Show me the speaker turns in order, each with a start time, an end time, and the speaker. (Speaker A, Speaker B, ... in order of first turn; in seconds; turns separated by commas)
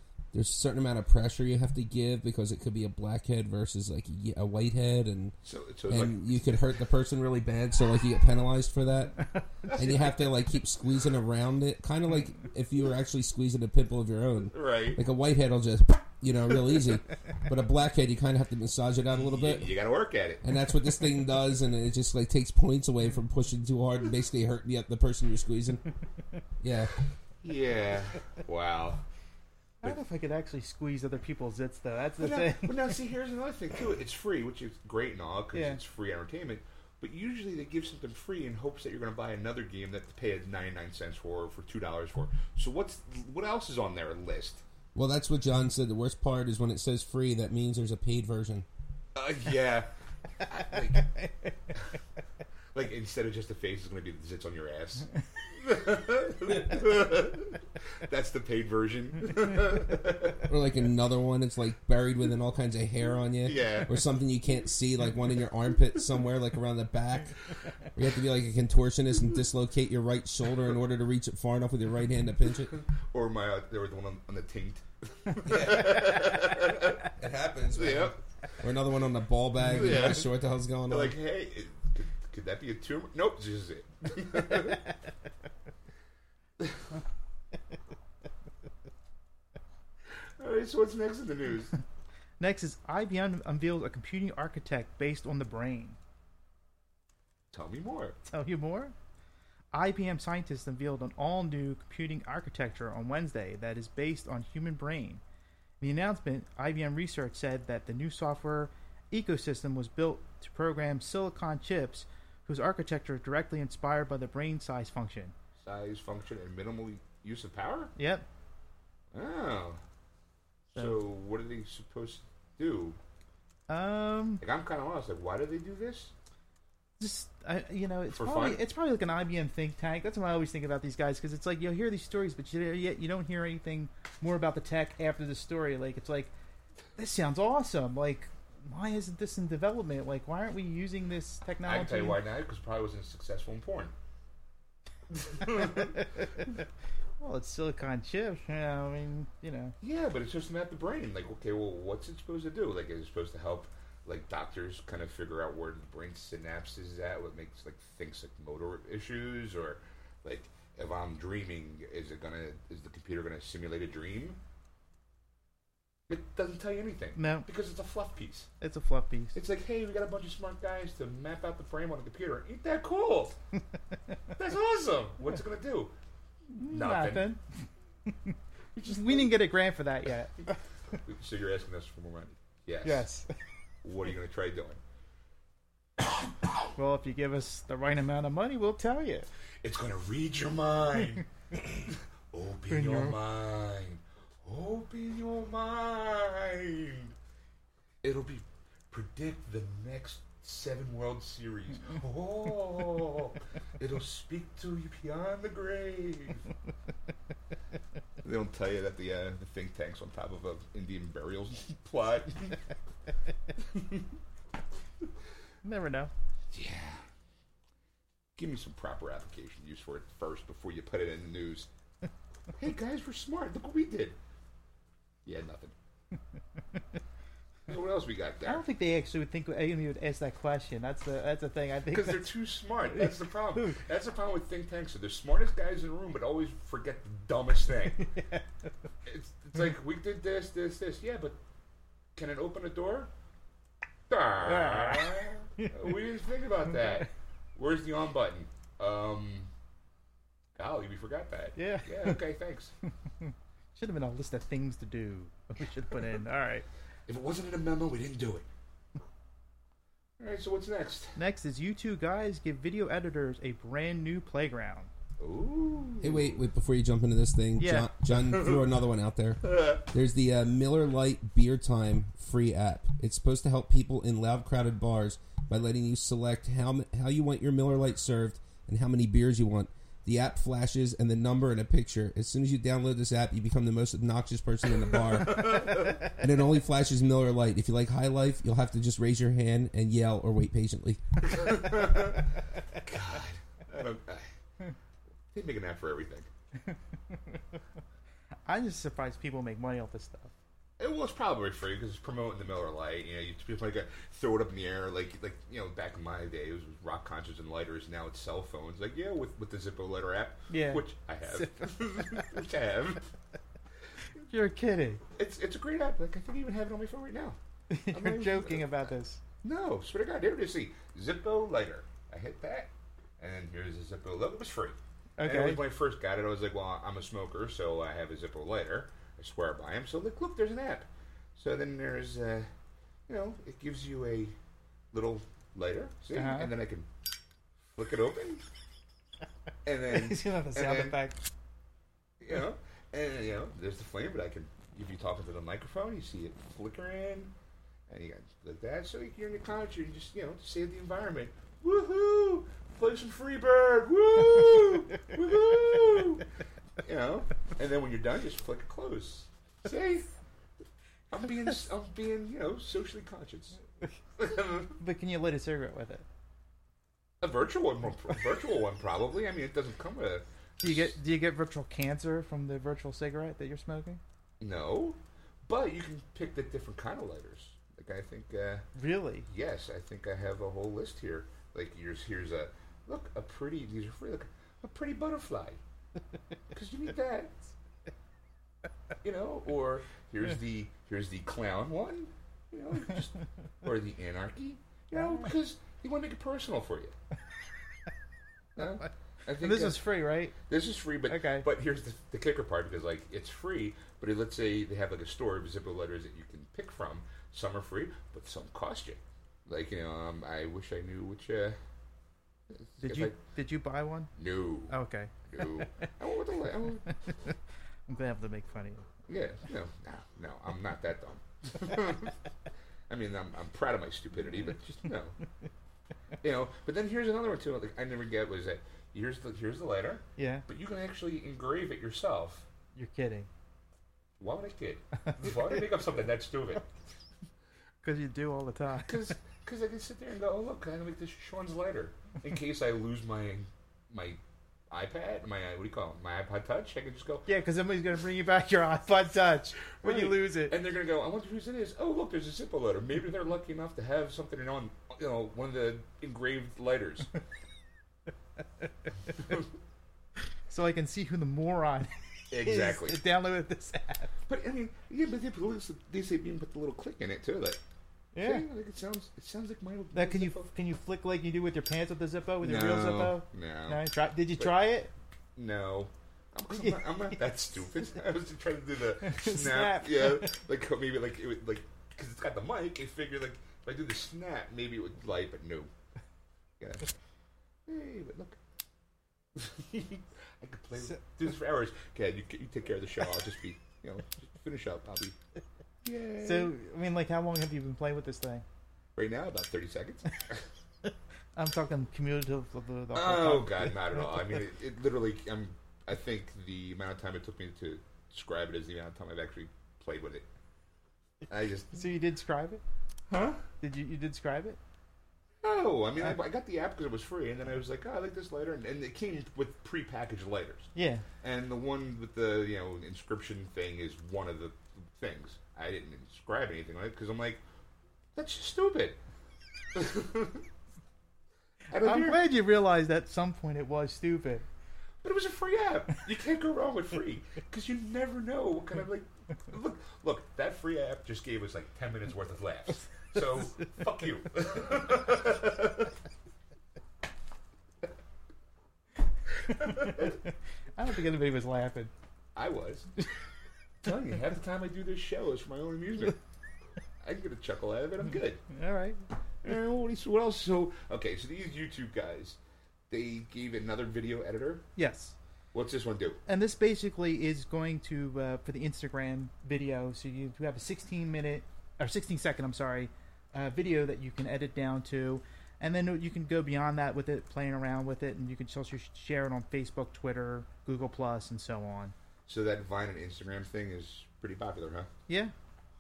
Speaker A: 0.3-5.3, Speaker B: 5.4-6.3, Speaker A: 5.9-19.7, Speaker B: 14.5-15.0, Speaker B: 19.1-20.4, Speaker A: 20.4-25.8, Speaker A: 26.6-26.9, Speaker B: 27.4-29.0, Speaker C: 29.8-32.9, Speaker B: 32.2-44.6, Speaker C: 35.5-35.8, Speaker A: 45.0-48.7, Speaker B: 49.1-49.9, Speaker B: 50.4-51.1, Speaker C: 51.1-51.5, Speaker B: 52.7-60.4, Speaker A: 60.5-67.4, Speaker B: 63.4-63.9, Speaker A: 67.9-72.8, Speaker B: 72.7-77.0, Speaker A: 75.5-76.5, Speaker A: 77.1-81.2, Speaker B: 77.7-78.2, Speaker B: 79.6-80.3, Speaker B: 80.9-84.8, Speaker B: 86.6-86.8, Speaker B: 90.4-91.7, Speaker C: 92.4-96.0, Speaker B: 97.5-98.2, Speaker C: 98.3-99.0, Speaker C: 99.7-105.2, Speaker C: 105.8-115.3, Speaker B: 115.6-117.9, Speaker C: 118.0-118.3, Speaker B: 119.1-119.8, Speaker B: 120.7-123.0, Speaker C: 123.7-124.4, Speaker B: 124.4-126.1, Speaker C: 127.0-136.3, Speaker B: 128.1-128.6, Speaker C: 137.0-142.2, Speaker B: 141.7-143.9, Speaker B: 145.1-146.1, Speaker C: 145.6-146.4, Speaker C: 147.2-149.8, Speaker B: 149.8-164.4, Speaker B: 166.1-168.5, Speaker C: 167.2-167.5, Speaker C: 168.6-169.4, Speaker B: 169.3-173.4, Speaker B: 174.4-175.9, Speaker C: 176.5-177.4, Speaker B: 176.7-177.3, Speaker C: 178.1-180.6, Speaker B: 178.8-179.3, Speaker B: 181.0-183.1, Speaker C: 182.8-183.3, Speaker B: 183.8-184.8, Speaker C: 186.8-189.3, Speaker B: 189.6-197.1, Speaker C: 192.7-193.2, Speaker B: 198.0-206.5, Speaker B: 208.2-212.6, Speaker B: 213.6-214.1, Speaker C: 215.6-216.1, Speaker B: 216.5-217.1, Speaker B: 218.4-221.7, Speaker B: 222.6-224.2, Speaker B: 225.2-225.7, Speaker B: 227.7-228.6, Speaker C: 228.5-232.3, Speaker B: 231.9-238.1, Speaker C: 233.0-233.8, Speaker C: 238.0-238.5, Speaker B: 239.1-241.4, Speaker B: 242.2-243.1, Speaker B: 244.1-249.5, Speaker C: 244.4-245.9, Speaker B: 250.6-252.7, Speaker C: 251.6-252.2, Speaker C: 253.1-256.7, Speaker B: 257.1-258.4, Speaker B: 260.2-261.2, Speaker C: 261.2-264.9, Speaker B: 265.2-266.4, Speaker A: 266.0-291.3, Speaker C: 267.6-267.9, Speaker B: 268.2-268.6, Speaker B: 269.4-269.8, Speaker B: 285.2-286.0, Speaker B: 291.2-294.3, Speaker B: 295.3-296.3, Speaker C: 298.5-300.3, Speaker B: 300.8-313.1, Speaker C: 310.5-312.3, Speaker C: 314.2-315.0, Speaker B: 315.2-317.4, Speaker C: 317.7-319.2, Speaker B: 317.9-318.8, Speaker B: 319.4-332.5, Speaker C: 325.2-325.6, Speaker B: 333.1-334.3, Speaker B: 334.9-336.9, Speaker C: 336.1-336.5, Speaker B: 337.7-338.4, Speaker B: 339.6-341.0, Speaker C: 339.9-341.2, Speaker B: 342.2-347.3, Speaker B: 347.9-356.3, Speaker B: 356.8-360.1, Speaker B: 361.1-363.6, Speaker B: 364.2-364.8, Speaker C: 364.8-366.1, Speaker B: 367.2-370.9, Speaker C: 370.6-374.0, Speaker B: 374.4-378.7, Speaker C: 378.8-379.3, Speaker B: 379.3-385.6, Speaker B: 386.5-387.4, Speaker B: 389.0-396.9, Speaker B: 398.6-399.8, Speaker C: 399.4-400.4, Speaker B: 400.4-411.6, Speaker C: 401.1-401.5, Speaker B: 412.5-413.2, Speaker C: 412.8-414.1, Speaker B: 414.2-414.8, Speaker C: 414.7-415.9, Speaker B: 415.3-416.9, Speaker C: 416.9-417.4, Speaker C: 417.9-418.9, Speaker B: 419.1-422.2, Speaker B: 422.9-425.1, Speaker B: 426.2-432.5, Speaker C: 430.2-430.4, Speaker C: 432.8-433.3, Speaker B: 434.2-436.7, Speaker C: 435.1-435.3, Speaker C: 437.8-439.1, Speaker B: 438.8-444.2, Speaker B: 444.7-447.3, Speaker C: 447.3-450.6, Speaker B: 449.8-457.1, Speaker C: 460.5-464.1, Speaker B: 462.3-463.0, Speaker B: 464.3-467.6, Speaker C: 468.1-468.4, Speaker B: 468.2-470.5, Speaker C: 469.9-474.9, Speaker B: 472.4-473.8, Speaker B: 475.4-485.7, Speaker C: 476.5-477.2, Speaker C: 479.0-480.4, Speaker B: 486.6-486.9, Speaker B: 487.7-488.4, Speaker B: 489.4-495.2, Speaker B: 495.8-496.5, Speaker C: 496.2-498.4, Speaker B: 499.0-500.5, Speaker C: 501.4-504.1, Speaker B: 502.9-510.3, Speaker B: 511.3-511.9, Speaker C: 511.7-512.6, Speaker B: 513.1-513.4, Speaker C: 513.6-514.6, Speaker B: 515.4-527.4, Speaker C: 520.8-521.1, Speaker B: 528.1-529.0, Speaker B: 529.7-530.5, Speaker B: 531.7-532.2, Speaker C: 531.8-534.5, Speaker B: 535.0-545.9, Speaker C: 549.5-551.9, Speaker B: 552.4-552.9, Speaker B: 553.8-556.2, Speaker B: 557.0-558.4, Speaker C: 558.5-559.0, Speaker B: 559.4-562.4, Speaker B: 562.9-564.6, Speaker C: 564.8-565.2, Speaker B: 565.5-566.2, Speaker C: 566.3-582.0, Speaker B: 582.3-584.9, Speaker C: 585.1-585.3